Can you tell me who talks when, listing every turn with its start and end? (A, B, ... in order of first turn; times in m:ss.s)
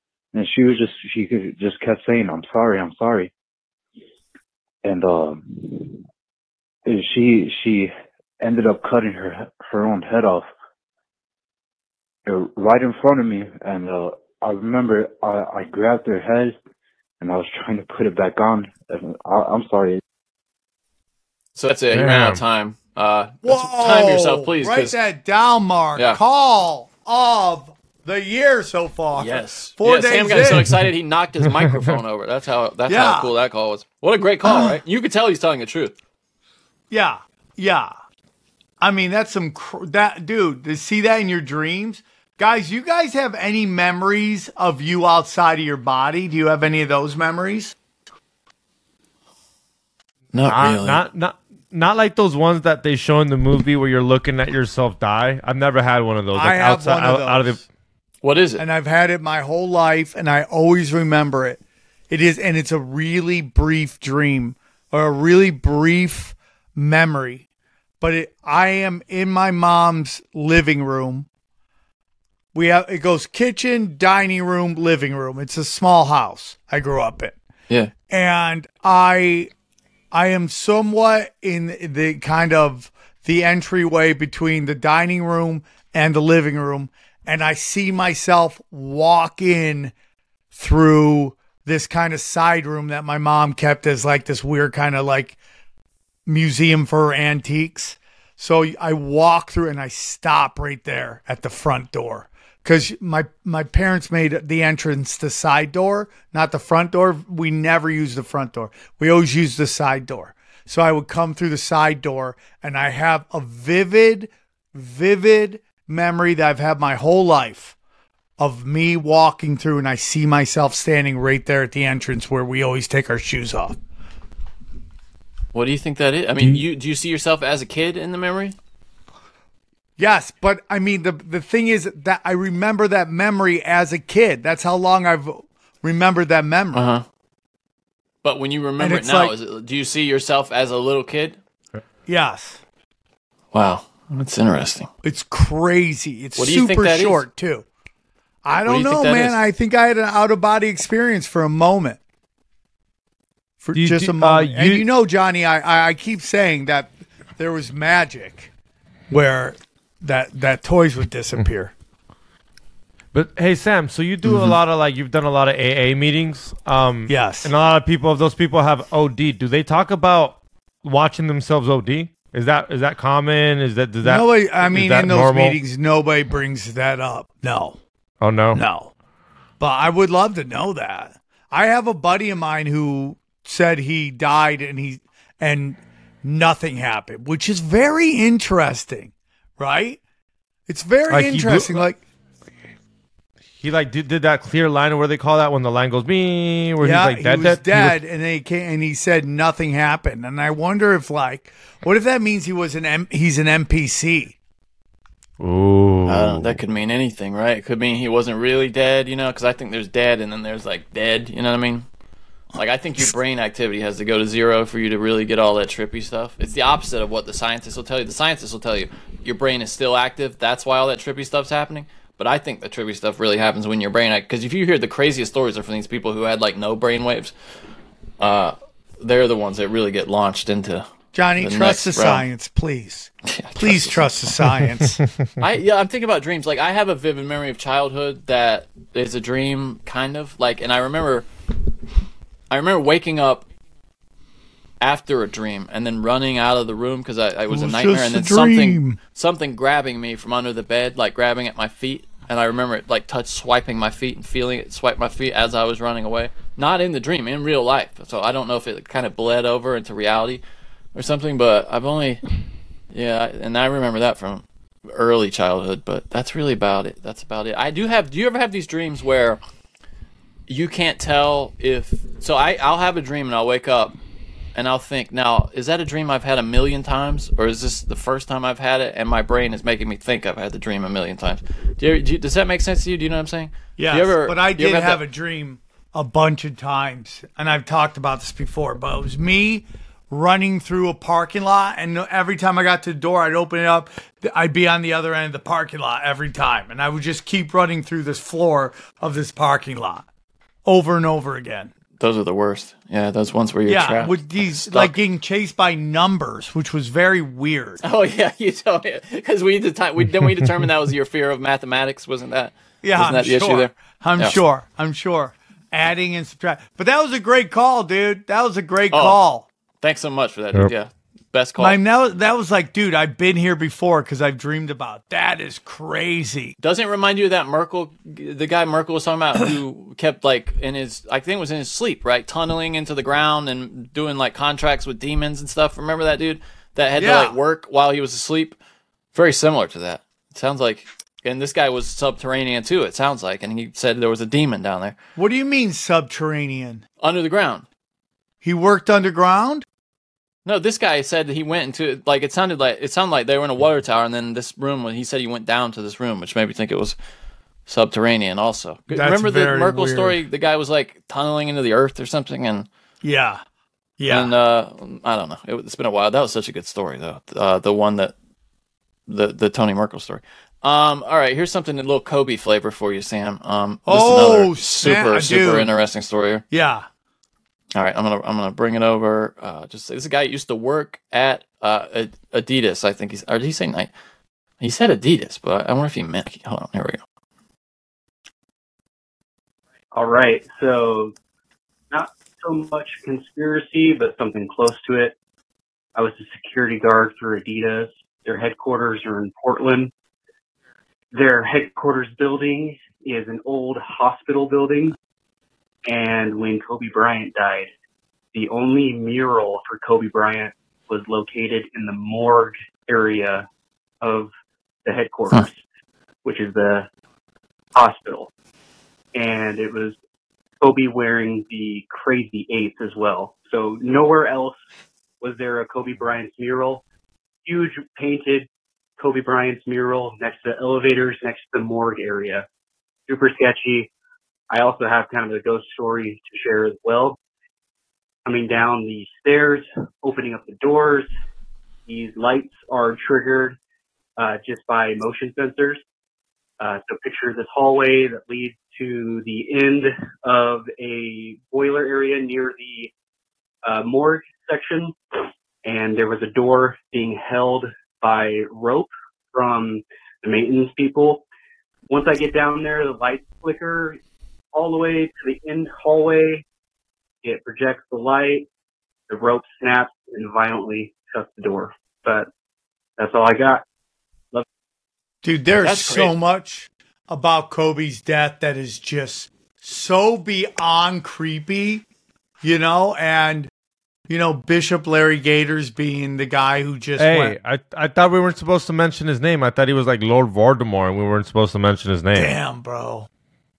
0:00.3-0:03.3 A
0:04.8-0:06.0 A
0:06.8-0:10.5 A
0:12.3-0:16.6 A
0:17.2-0:20.0 A
0:21.6-0:25.0 B
0:21.9-0:22.4 C
0:23.4-0:30.7 D
0:29.2-0:36.0 B
0:32.9-0:33.3 D
0:34.4-0:34.8 D
0:36.9-0:38.0 D
0:38.8-0:47.8 D
0:50.3-0:51.0 B
0:50.5-0:57.6 C
0:56.3-0:57.6 D
0:58.2-0:58.6 B
0:58.6-1:07.4 D
1:08.0-1:11.3 D
1:12.5-1:17.4 D
1:18.1-1:19.5 D
1:20.1-1:29.9 D
1:30.5-1:35.4 D
1:36.3-1:57.8 D
1:58.4-2:03.8 D
2:05.5-2:08.6 B
2:10.0-2:16.9 D
2:16.7-2:17.0 B
2:18.2-2:21.4 B
2:18.8-2:19.3 D
2:22.1-2:22.6 D
2:23.5-2:24.9 B
2:25.0-2:27.6 D
2:26.4-2:27.2 B
2:28.4-2:32.0 D
2:28.6-2:29.4 B
2:33.6-2:38.5 D
2:33.7-2:34.9 C
2:39.1-2:41.7 D
2:43.1-2:55.6 C
2:47.1-2:47.5 D
2:54.0-2:57.8 D
2:58.2-2:58.6 C
2:58.5-2:58.9 D
2:59.6-3:10.0 D
3:10.7-3:12.0 D
3:11.1-3:11.8 C
3:13.6-3:18.0 C
3:16.8-3:24.4 D
3:25.4-3:26.6 C
3:26.1-3:31.9 B
3:32.6-3:47.3 B
3:48.2-3:50.9 B
3:51.1-3:55.0 D
3:51.4-3:52.2 B
3:53.2-3:54.3 B
3:55.4-4:01.3 B
4:02.5-4:03.4 B
4:04.8-4:20.4 B
4:07.5-4:09.0 D
4:20.9-4:22.2 B
4:22.9-4:29.4 B
4:30.5-4:34.0 B
4:34.6-4:45.0 B
4:43.8-5:00.1 D
5:00.7-5:01.7 D
5:02.0-5:05.0 B
5:03.7-5:07.8 D
5:07.8-5:14.4 B
5:12.8-5:19.5 D
5:18.9-5:19.2 B
5:19.8-5:21.8 B
5:21.6-5:26.6 D
5:26.6-5:38.6 B
5:37.0-5:37.4 D
5:39.1-5:45.0 B
5:45.2-5:46.8 D
5:47.0-5:47.6 B
5:48.4-5:49.6 D
5:50.4-5:57.0 B
5:57.7-6:02.7 B
5:58.9-6:00.2 D
6:03.0-6:03.4 D
6:04.0-6:04.3 D
6:04.1-6:08.1 B
6:09.1-6:16.4 B
6:13.9-6:15.7 D
6:16.5-6:16.9 D
6:17.8-6:23.9 B
6:24.6-6:27.0 B
6:29.9-6:31.1 E
6:31.9-6:35.2 E
6:36.0-6:39.9 E
6:41.1-6:45.0 E
6:45.9-6:47.7 E
6:48.3-6:53.5 E
6:54.0-6:54.3 E
6:54.8-6:55.6 E
6:56.2-6:56.9 E
6:57.8-6:58.3 E
6:59.2-7:00.0 E
7:00.6-7:04.6 E
7:05.2-7:06.8 E
7:07.4-7:08.5 E
7:09.0-7:12.5 E
7:13.1-7:13.9 E
7:14.5-7:17.2 E
7:18.3-7:21.1 E
7:21.9-7:23.6 E
7:24.2-7:25.8 E
7:26.6-7:32.9 E
7:33.7-7:35.0 E
7:35.6-7:41.2 E
7:41.9-7:44.0 E
7:44.5-7:46.4 E
7:47.2-7:48.5 E
7:49.1-7:52.3 E
7:53.0-7:53.6 E
7:55.2-8:01.8 D
7:55.6-7:56.2 B
8:02.4-8:03.5 D
8:04.1-8:07.4 D
8:07.0-8:12.3 C
8:12.2-8:13.1 D